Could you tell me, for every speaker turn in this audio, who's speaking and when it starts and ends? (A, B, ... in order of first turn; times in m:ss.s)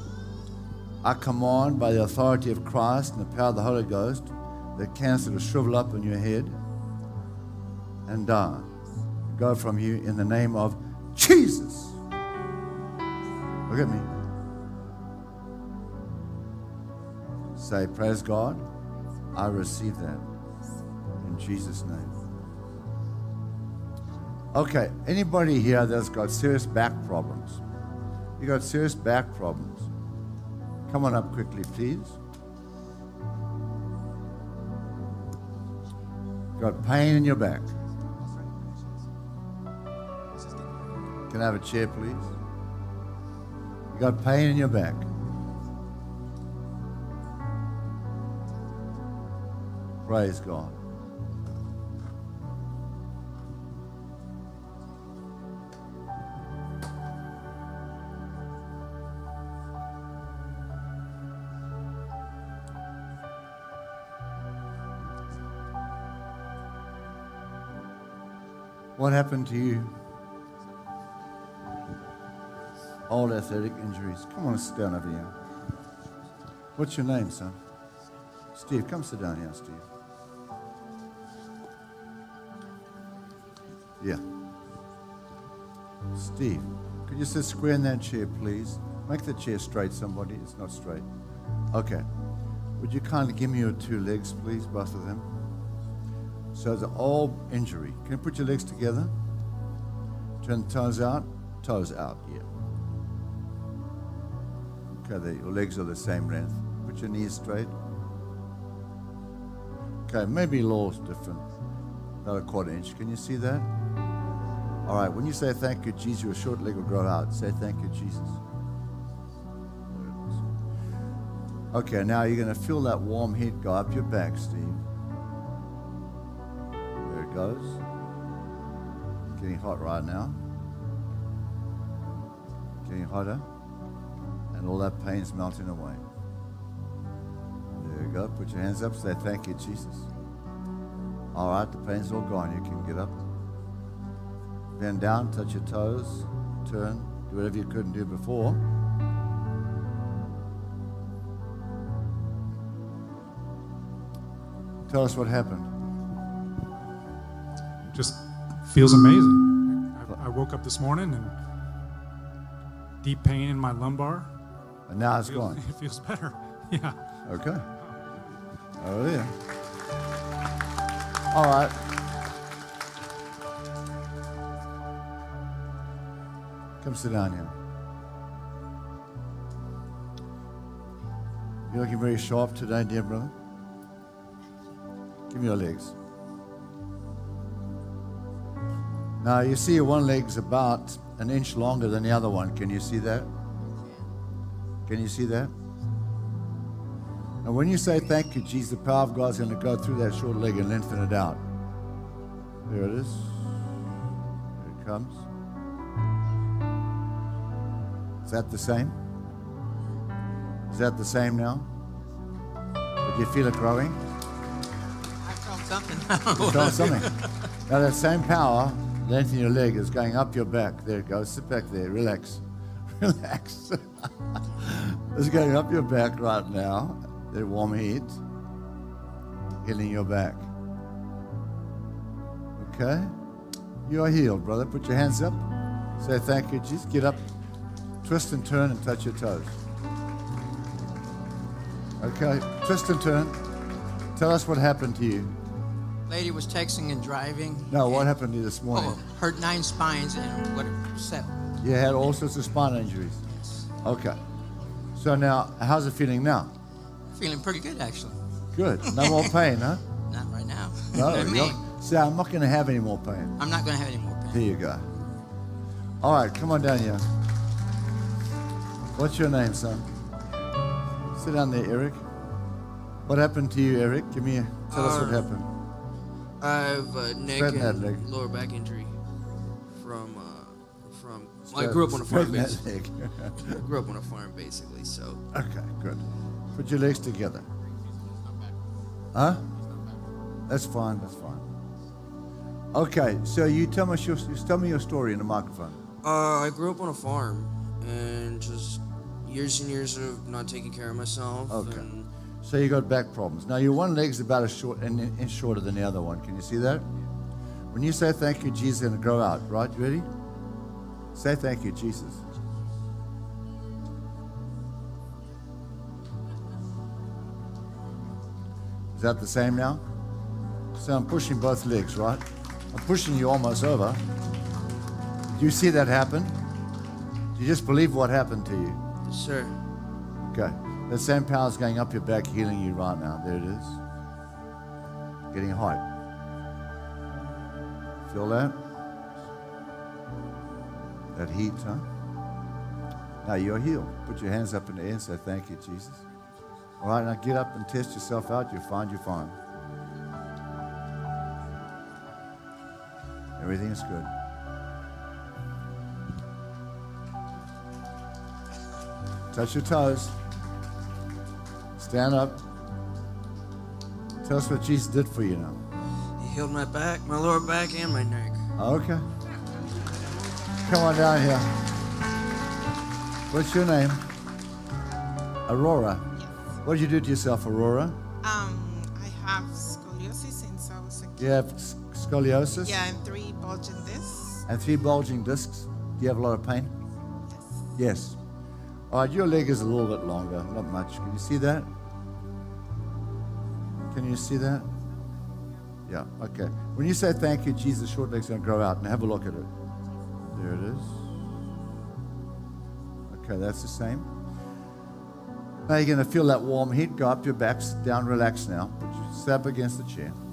0:01.0-0:06.6 A
0:08.1-0:08.7 A
0:09.3-0:12.0 A
0:13.7-0:14.1 A
0:17.6-0:18.7 A
0:19.3-0:20.3 A
0:21.2-0:22.2 A
0:24.5-0:27.6 A
0:28.4-0:29.9 A
0:30.9-0:32.2 A
0:36.6-0:37.7 A
0:41.3-0:42.3 A
0:43.9-0:45.1 A
0:50.1-0:50.8 A
1:09.0-1:09.9 A
1:13.1-1:15.3 A
1:16.8-1:17.6 A
1:18.6-1:19.8 A
1:26.2-1:31.1 A
1:31.7-1:32.1 A
1:32.8-1:35.3 A
1:36.6-1:39.1 A
1:40.4-1:42.5 A
1:44.9-1:47.8 A
1:50.1-1:51.4 A
1:52.2-1:53.7 A
1:54.8-1:58.4 A
1:59.9-2:00.4 A
2:01.7-2:04.8 A
2:07.0-2:07.8 A
2:09.4-2:10.4 A
2:12.8-2:13.5 A
2:14.5-2:16.0 A
2:17.7-2:20.1 A
2:21.3-2:23.2 A
2:24.8-2:28.6 A
2:34.9-2:35.7 A
2:37.9-2:41.4 B
2:43.0-2:44.3 B
2:44.9-2:45.6 A
2:45.3-2:47.0 B
2:47.2-2:47.7 A
2:48.8-2:49.4 A
2:51.3-2:51.8 A
2:56.8-2:57.5 A
3:01.7-3:03.3 A
3:05.3-3:06.0 A
3:09.2-3:13.3 A
3:14.9-3:15.5 A
3:17.4-3:21.4 A
3:22.7-3:23.6 A
3:24.6-3:25.2 A
3:28.3-3:29.0 A
3:30.7-3:31.7 A
3:33.0-3:34.0 A
3:35.2-3:36.1 C
3:36.1-3:37.2 D
3:36.4-3:42.4 A
3:43.0-3:48.2 A
3:49.6-3:50.5 A
3:52.6-3:53.2 A
3:53.8-3:55.5 A
3:56.0-3:57.2 A
3:58.0-3:59.6 A
4:02.0-4:03.4 A
4:04.2-4:05.4 A
4:06.1-4:08.1 D
4:07.7-4:09.0 A
4:08.7-4:11.3 D
4:11.6-4:13.2 A
4:13.8-4:14.2 A
4:15.0-4:16.5 A
4:17.1-4:18.2 D
4:18.6-4:19.8 A
4:18.8-4:19.3 D
4:20.1-4:21.6 D
4:20.9-4:23.4 A
4:23.4-4:24.5 D
4:24.3-4:24.9 A
4:26.0-4:27.0 A
4:29.0-4:29.9 A
4:31.2-4:32.0 A
4:33.1-4:35.5 A
4:34.7-4:35.3 E
4:36.4-4:39.0 E
4:37.3-4:38.0 A
4:39.7-4:42.6 E
4:41.5-4:43.6 A
4:43.4-4:45.2 E
4:45.3-4:47.5 A
4:49.1-4:49.5 A
4:50.5-4:51.4 A
4:52.7-4:55.8 A
4:56.0-5:02.1 E
5:01.5-5:01.9 A
5:02.4-5:06.9 A
5:07.7-5:10.1 A
5:11.2-5:12.2 A
5:19.0-5:19.8 A
5:20.8-5:24.0 A
5:25.3-5:26.4 A
5:27.4-5:28.8 A
5:29.0-5:29.6 E
5:30.3-5:33.8 A
5:35.3-5:35.9 A
5:38.1-5:38.6 A
5:41.1-5:41.9 A
5:43.2-5:46.0 A
5:46.8-5:49.4 A
5:53.4-5:54.1 A
5:59.3-6:00.2 A
6:01.8-6:02.4 A
6:04.2-6:05.6 A
6:06.2-6:08.5 E
6:08.6-6:09.1 A
6:10.6-6:11.5 A
6:13.3-6:14.0 A
6:15.5-6:16.1 A
6:16.6-6:18.0 A
6:18.2-6:21.3 C
6:21.2-6:22.8 A
6:22.6-6:24.4 C
6:24.5-6:26.8 A
6:27.3-6:27.6 C
6:27.8-6:28.2 A
6:28.9-6:31.7 A
6:33.9-6:34.7 A
6:35.9-6:39.5 A
6:40.3-6:41.2 A
6:43.1-6:44.1 A
6:45.7-6:50.2 A